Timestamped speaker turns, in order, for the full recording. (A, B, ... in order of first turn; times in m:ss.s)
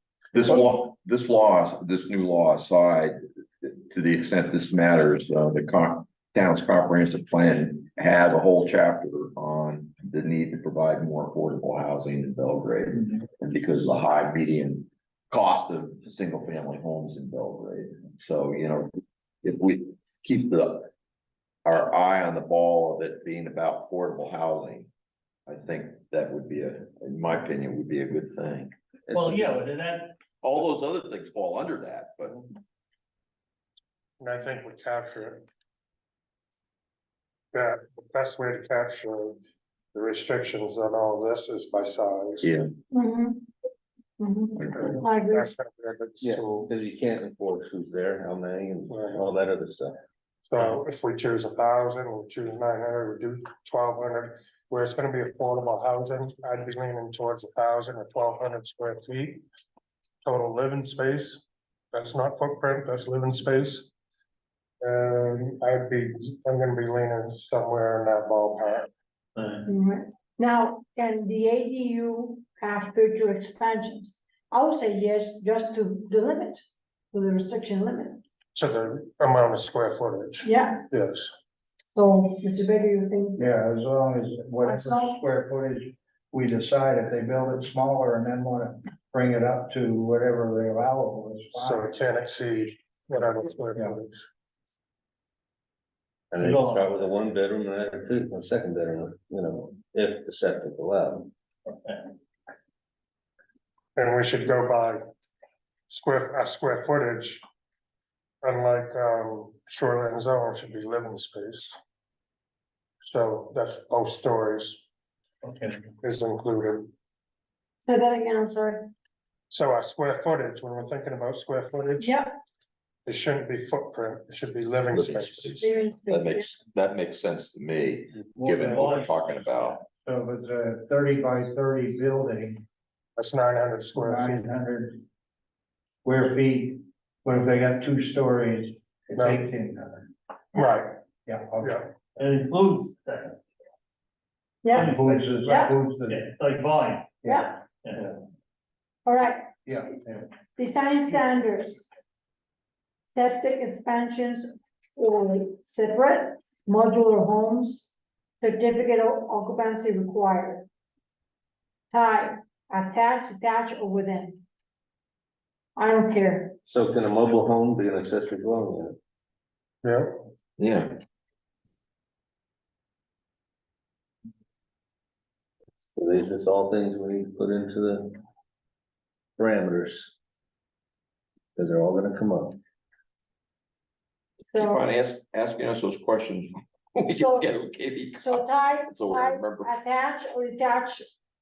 0:00.3-0:18.9 A
0:19.4-0:20.9 A
0:21.6-0:24.9 A
0:25.5-0:28.7 A
0:29.1-0:29.6 B
0:29.1-0:30.1 C
0:30.4-0:32.4 A
0:34.2-0:35.4 D
0:37.5-0:39.4 D
0:39.9-0:42.5 D
0:42.4-0:42.7 A
0:42.9-0:43.5 E
0:44.2-0:45.5 E
0:44.8-0:46.7 D
0:46.2-0:50.0 B
0:48.9-0:49.2 D
0:50.5-0:59.4 D
1:00.2-1:03.9 D
1:04.8-1:08.9 D
1:09.4-1:09.6 C
1:09.7-1:18.2 E
1:18.6-1:21.3 D
1:20.4-1:20.8 E
1:21.9-1:23.5 E
1:23.4-1:31.9 F
1:24.6-1:25.2 E
1:31.6-1:34.2 D
1:33.7-1:34.0 F
1:36.3-1:41.3 B
1:36.4-1:37.0 C
1:41.7-1:42.1 C
1:44.0-1:45.0 D
1:45.9-1:47.4 D
1:48.4-1:51.8 D
1:53.0-1:54.8 D
1:55.4-1:55.8 C
1:56.0-1:56.9 D
1:57.8-1:58.9 E
1:59.5-2:02.2 D
2:02.0-2:02.4 E
2:03.1-2:05.7 D
2:04.9-2:09.8 A
2:05.6-2:06.5 E
2:08.4-2:09.8 C
2:10.0-2:12.6 F
2:13.2-2:14.5 D
2:14.0-2:15.0 F
2:16.0-2:20.1 F
2:19.2-2:19.5 D
2:20.5-2:21.0 D
2:21.2-2:21.9 F
2:21.6-2:21.9 D
2:22.2-2:23.4 C
2:24.6-2:25.7 E
2:24.7-2:27.2 C
2:24.8-2:26.2 F
2:27.2-2:27.5 F
2:27.2-2:27.6 E
2:27.8-2:28.1 C
2:29.0-2:29.5 E
2:29.6-2:30.2 F
2:30.6-2:31.9 E
2:33.1-2:40.7 E
2:41.9-2:44.4 E
2:45.8-2:46.6 E
2:46.6-2:49.0 B
2:49.8-2:50.2 D
2:50.6-2:51.0 A
2:56.0-2:58.2 B
2:59.4-3:00.2 B
3:01.6-3:02.6 B
3:04.5-3:09.7 A
3:04.5-3:04.8 E
3:07.1-3:07.5 E
3:08.2-3:11.0 E